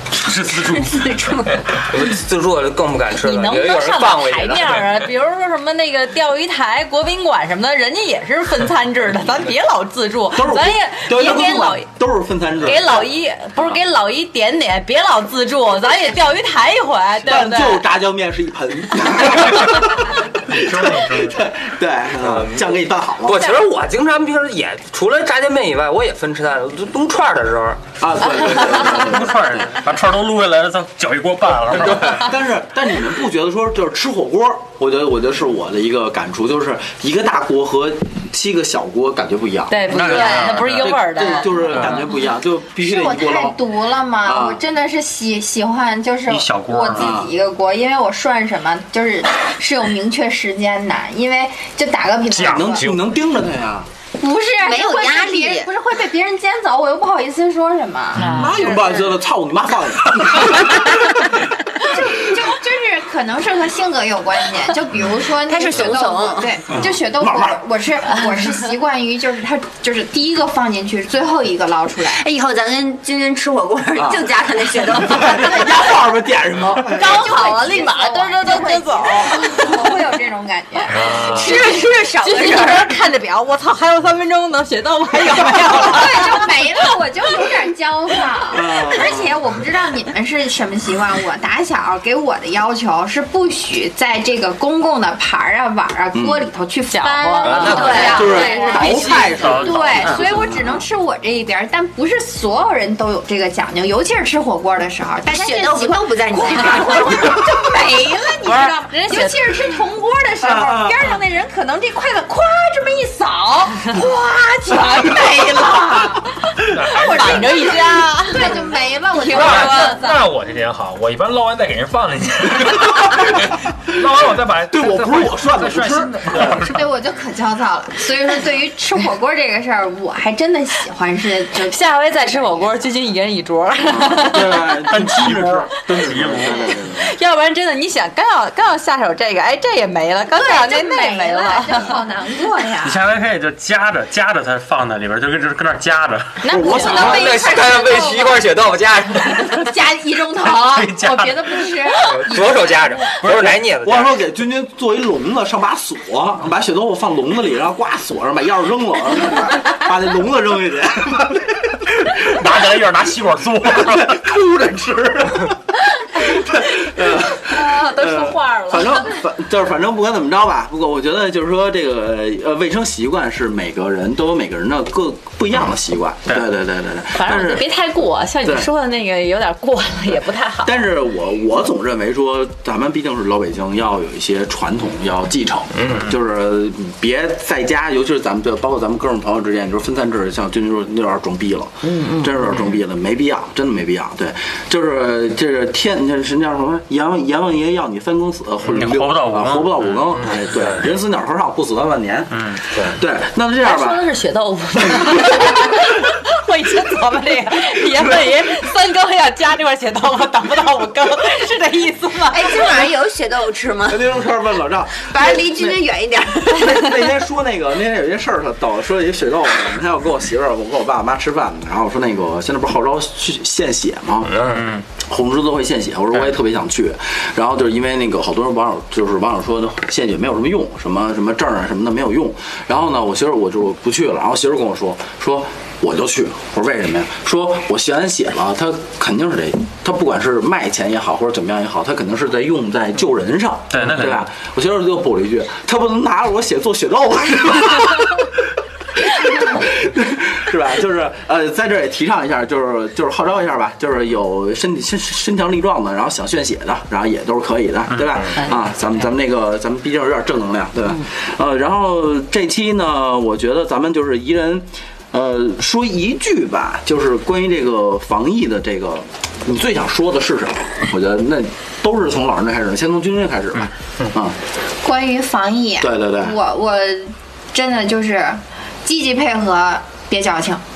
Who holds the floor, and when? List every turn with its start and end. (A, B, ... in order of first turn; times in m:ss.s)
0:00.1-0:01.6 A
0:00.3-0:01.6 B
0:01.8-0:04.9 C
0:03.2-0:11.9 D
0:10.3-0:13.0 E
0:12.6-0:17.8 D
0:17.2-0:23.5 E
0:20.5-0:21.4 F
0:22.2-0:27.9 C
0:28.0-0:29.5 E
0:28.8-0:32.3 A
0:31.7-0:43.6 E
0:39.7-0:41.9 D
0:39.9-0:42.0 A
0:40.1-0:40.5 B
0:42.8-0:52.8 G
0:44.2-0:44.6 E
0:46.3-0:47.1 A
0:46.9-0:47.3 E
0:52.4-0:52.8 F
0:52.4-0:53.9 E
0:54.2-0:58.5 G
0:54.6-0:55.7 B
0:58.2-0:59.1 D
0:58.2-1:01.1 E
1:01.8-1:12.2 G
1:05.4-1:06.6 B
1:06.8-1:07.6 E
1:12.1-1:15.9 B
1:14.0-1:14.3 E
1:14.9-1:17.1 E
1:16.8-1:21.6 G
1:16.9-1:19.8 D
1:21.2-1:22.9 B
1:21.3-1:26.4 D
1:25.6-1:56.2 G
1:28.5-1:29.4 E
1:36.1-1:36.5 E
1:36.9-1:39.5 D
1:37.4-1:38.2 C
1:37.6-1:40.8 E
1:37.6-1:39.0 B
1:39.3-1:40.5 A
1:45.2-1:47.6 B
1:48.4-1:49.5 D
1:50.4-1:51.0 E
1:55.1-1:55.8 E
1:56.6-1:57.8 F
1:56.9-2:00.2 D
1:57.1-2:00.0 G
1:59.2-2:06.7 F
1:59.4-1:59.6 B
2:04.7-2:06.6 E
2:06.4-2:06.7 A
2:06.5-2:11.8 G
2:11.7-2:14.7 D
2:13.8-2:17.1 E
2:14.9-2:16.8 A
2:16.7-2:22.0 D
2:20.3-2:23.0 G
2:22.8-2:26.5 A
2:26.4-2:27.2 D
2:26.5-2:27.5 E
2:26.5-2:28.4 G
2:26.8-2:29.7 C
2:29.3-2:33.1 G
2:30.4-2:31.8 A
2:32.0-2:34.2 C
2:33.2-2:33.6 A
2:33.2-2:42.9 E
2:42.1-2:44.2 A
2:43.5-2:45.6 E
2:46.2-2:57.6 E
2:47.4-2:49.2 D
2:57.1-3:00.8 D
3:00.6-3:24.0 E
3:11.8-3:12.6 D
3:18.7-3:20.4 A
3:22.3-3:22.6 A
3:23.6-3:32.7 D
3:32.3-3:34.0 B
3:33.9-3:35.9 E
3:35.0-3:36.8 B
3:36.4-3:44.3 E
3:44.3-3:44.6 C
3:44.4-3:44.8 A
3:45.0-4:08.3 E
4:03.7-4:04.2 A
4:09.0-4:34.4 E
4:17.9-4:18.2 A
4:18.3-4:18.6 D
4:34.8-4:40.6 G
4:35.8-4:36.4 E